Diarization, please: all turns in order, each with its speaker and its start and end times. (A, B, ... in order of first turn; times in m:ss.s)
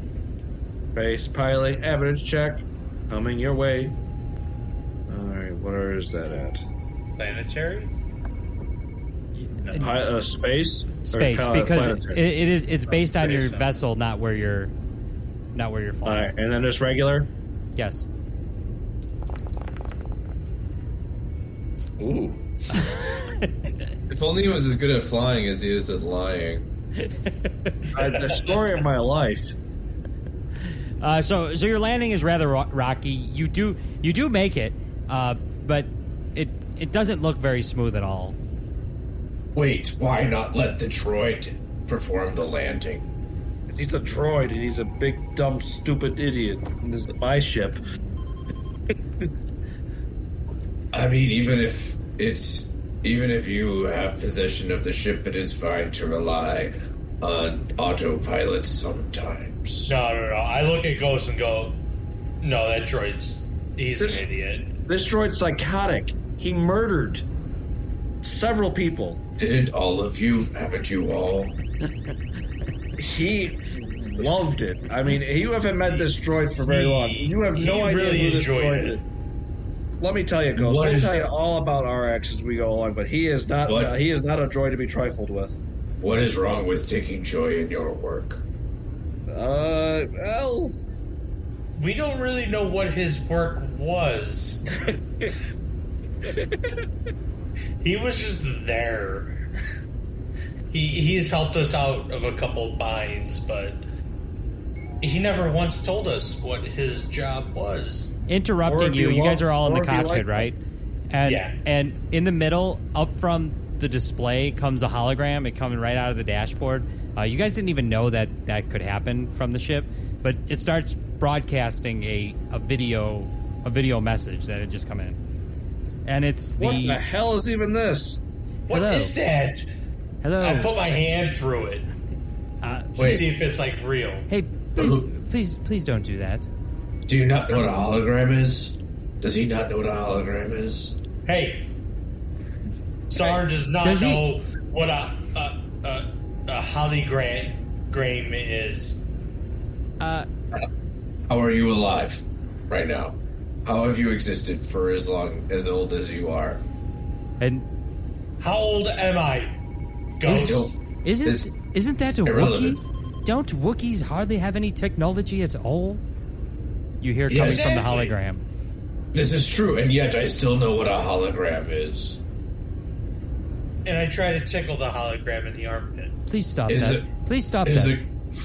0:00.9-0:04.0 A
0:05.1-0:06.6 A
0:07.2-0:07.9 B
0:09.4-0:09.9 C
0:09.7-0:12.2 A
0:11.1-0:14.7 C
0:13.2-0:13.6 A
0:15.5-0:16.3 C
0:16.0-0:17.3 A
0:17.8-0:18.0 C
0:22.0-0:22.4 A
0:22.7-0:23.7 C
0:24.1-0:26.6 D
0:27.0-0:27.9 C
0:27.9-0:29.5 A
0:31.0-0:38.4 C
0:39.5-0:43.1 D
0:43.7-0:47.8 A
0:50.9-0:59.9 D
0:59.9-1:01.8 B
1:02.4-1:04.7 B
1:04.0-1:04.2 A
1:04.9-1:07.2 A
1:08.2-1:09.2 A
1:09.4-1:11.6 D
1:13.0-1:19.0 A
1:16.6-1:19.0 B
1:20.0-1:25.6 A
1:20.6-1:21.3 D
1:23.6-1:24.0 D
1:26.0-1:28.4 D
1:29.3-1:30.7 A
1:31.8-1:34.6 B
1:34.9-1:35.3 A
1:37.8-1:39.4 B
1:40.7-1:43.8 B
1:45.0-1:48.1 B
1:48.3-1:50.6 C
1:48.7-1:50.5 A
1:51.1-2:05.2 C
1:51.2-1:51.5 B
2:06.0-2:07.0 C
2:06.6-2:08.2 A
2:08.7-2:09.7 B
2:08.7-2:09.2 C
2:10.2-2:10.7 C
2:10.4-2:11.9 B
2:12.6-2:13.2 C
2:13.0-2:14.3 B
2:13.0-2:13.2 D
2:14.3-2:16.5 C
2:14.8-2:15.1 D
2:17.1-2:21.0 D
2:21.2-2:21.7 B
2:23.1-2:29.0 B
2:23.8-2:24.2 C
2:30.0-2:30.3 C
2:31.3-2:36.6 D
2:37.4-2:37.6 C
2:38.4-2:39.6 B
2:40.2-2:40.7 B
2:40.2-2:40.7 D
2:41.0-2:46.0 C
2:41.2-2:41.5 D
2:42.2-2:42.8 D
2:47.0-2:48.4 C
2:47.3-2:47.8 D
2:47.3-2:48.1 B
2:49.1-2:52.2 D
2:53.8-2:56.2 B
2:56.3-2:58.0 C
2:56.7-2:57.1 D
2:57.6-2:58.1 D